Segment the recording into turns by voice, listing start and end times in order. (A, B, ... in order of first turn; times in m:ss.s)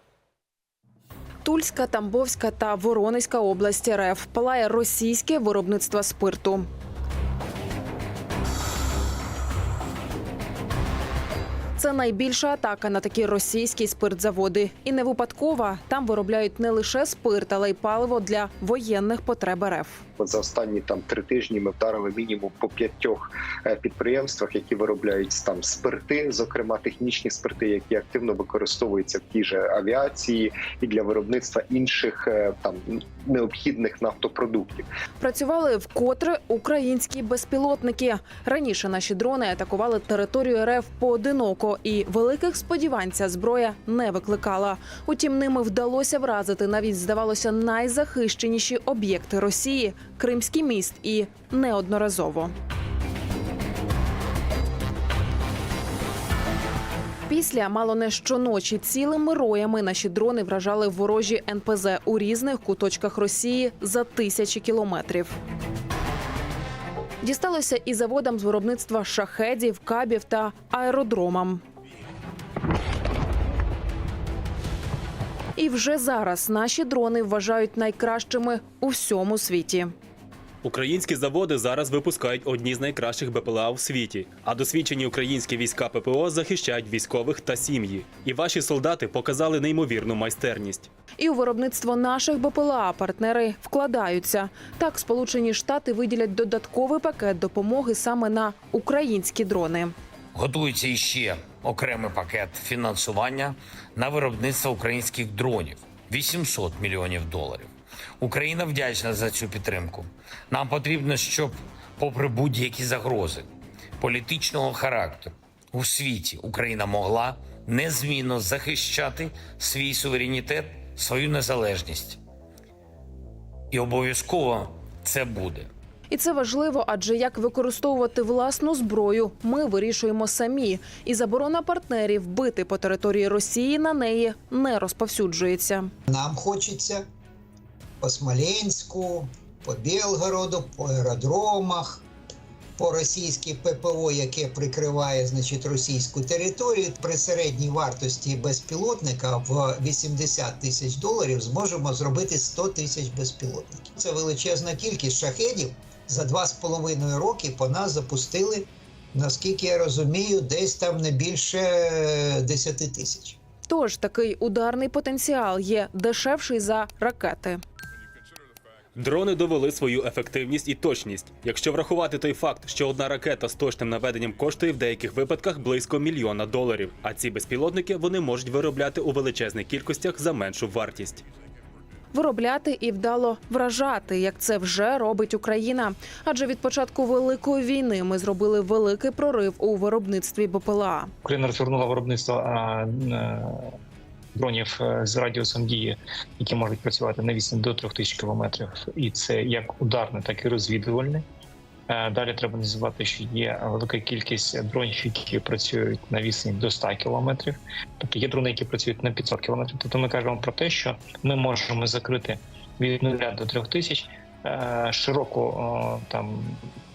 0:01.4-0:06.7 A
0:11.8-0:20.0 A
0:20.2-0:34.9 B
0:35.2-0:52.5 A
0:57.3-1:05.4 A
1:07.2-1:11.6 A
1:15.6-1:19.9 A
1:20.6-1:30.9 C
1:31.2-1:39.9 A
1:40.3-1:53.5 D
1:54.0-2:02.2 D
2:03.7-2:05.7 D
2:06.1-2:15.9 A
2:16.1-2:17.1 E
2:18.0-2:22.0 E
2:22.8-2:43.4 E
2:43.7-2:47.6 A
2:49.0-3:01.2 C
3:02.1-3:11.1 A
3:11.2-3:13.8 F
3:14.3-3:21.2 F
3:21.9-3:36.6 F